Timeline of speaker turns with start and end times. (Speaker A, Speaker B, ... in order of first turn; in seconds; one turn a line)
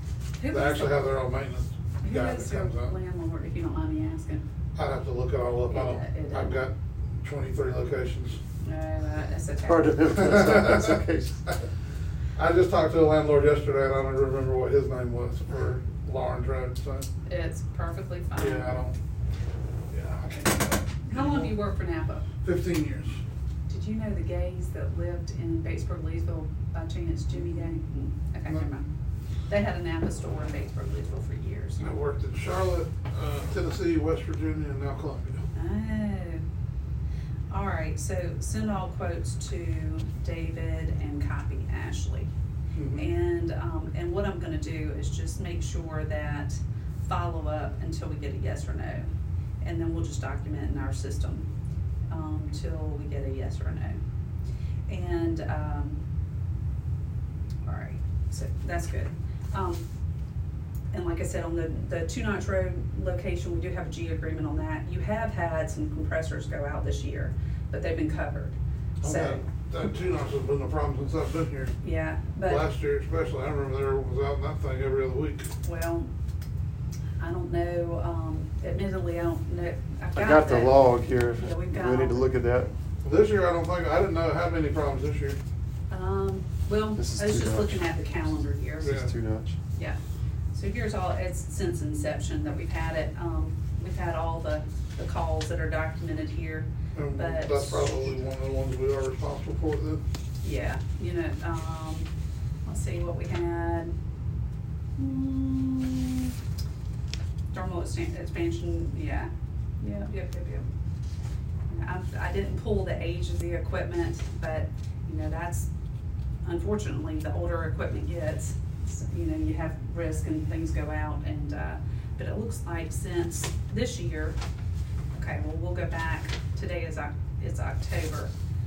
Speaker A: 0.4-0.9
Speaker B: 0.5-2.9
Speaker A: 2.0-4.4
Speaker B: 4.8-8.4
Speaker A: 5.7-6.7
Speaker A: 8.6-10.0
Speaker C: 9.6-11.4
Speaker B: 10.1-11.5
Speaker B: 12.3-17.1
Speaker A: 17.2-18.8
Speaker B: 18.4-18.9
Speaker B: 19.9-21.5
Speaker A: 21.1-22.2
Speaker B: 22.4-23.2
Speaker A: 23.7-28.9
Speaker A: 29.5-31.9
Speaker B: 31.8-35.4
Speaker A: 35.5-36.4
Speaker A: 37.5-42.3
Speaker B: 42.7-43.1
Speaker A: 42.9-49.1
Speaker A: 49.6-51.5
Speaker A: 52.1-54.0
Speaker A: 54.9-56.0
Speaker A: 57.6-59.9
Speaker A: 60.9-69.4
Speaker B: 69.0-71.7
Speaker A: 71.8-72.7
Speaker B: 72.5-75.5
Speaker A: 75.6-76.1
Speaker A: 77.2-80.8
Speaker C: 80.2-82.7
Speaker A: 81.4-82.2
Speaker B: 83.0-85.4
Speaker A: 85.9-89.0
Speaker C: 87.0-87.8
Speaker C: 88.8-89.6
Speaker B: 88.8-89.1
Speaker A: 90.5-98.0
Speaker B: 96.9-100.0
Speaker A: 100.4-102.1
Speaker A: 102.6-104.0
Speaker A: 105.0-106.3
Speaker A: 107.5-110.7
Speaker A: 111.7-115.7
Speaker A: 116.4-124.4
Speaker A: 125.1-128.3